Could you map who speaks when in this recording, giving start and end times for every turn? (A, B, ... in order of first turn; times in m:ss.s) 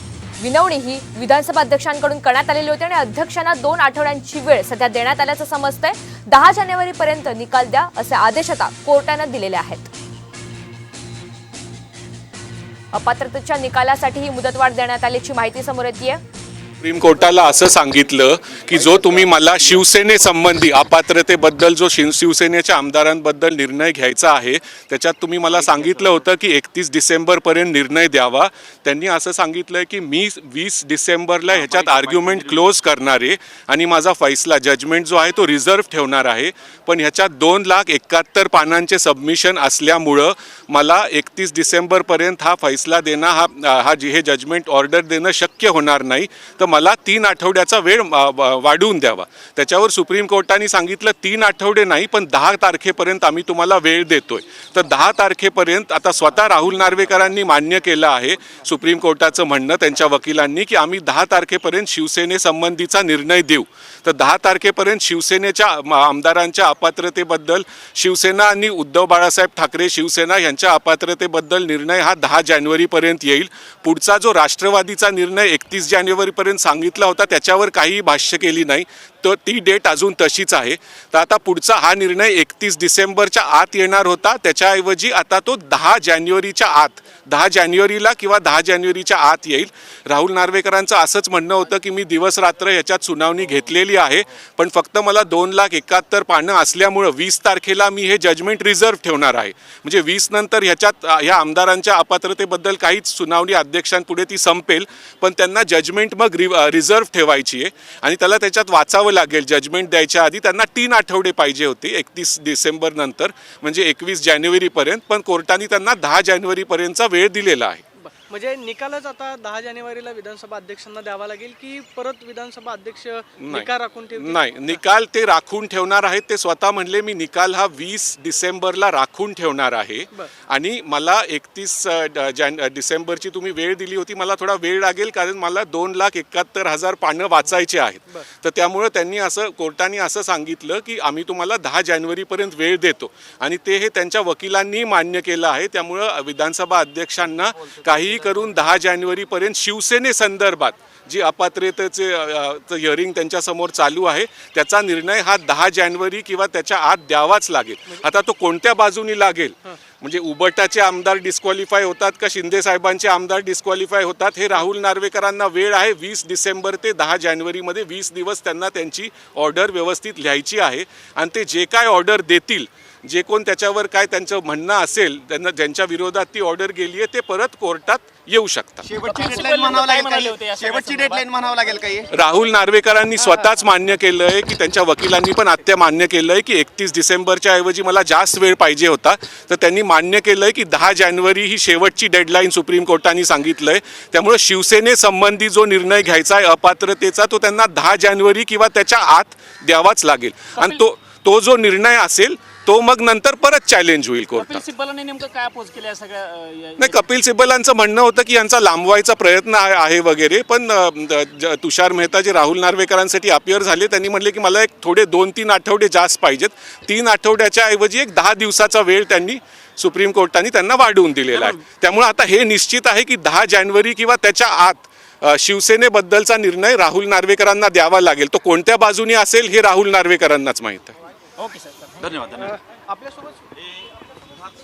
0:00.4-0:09.9 A
0:12.9-0:16.2 A
0:16.8-1:57.8 B
0:25.6-0:26.2 C
0:31.6-0:32.6 C
1:58.0-2:04.6 D
2:03.4-2:58.9 B
2:58.8-3:02.1 E
2:59.0-3:01.3 C
3:02.1-3:24.6 B
3:24.3-3:27.0 C
3:26.8-3:51.0 B
3:51.4-3:52.6 C
3:52.4-3:53.4 D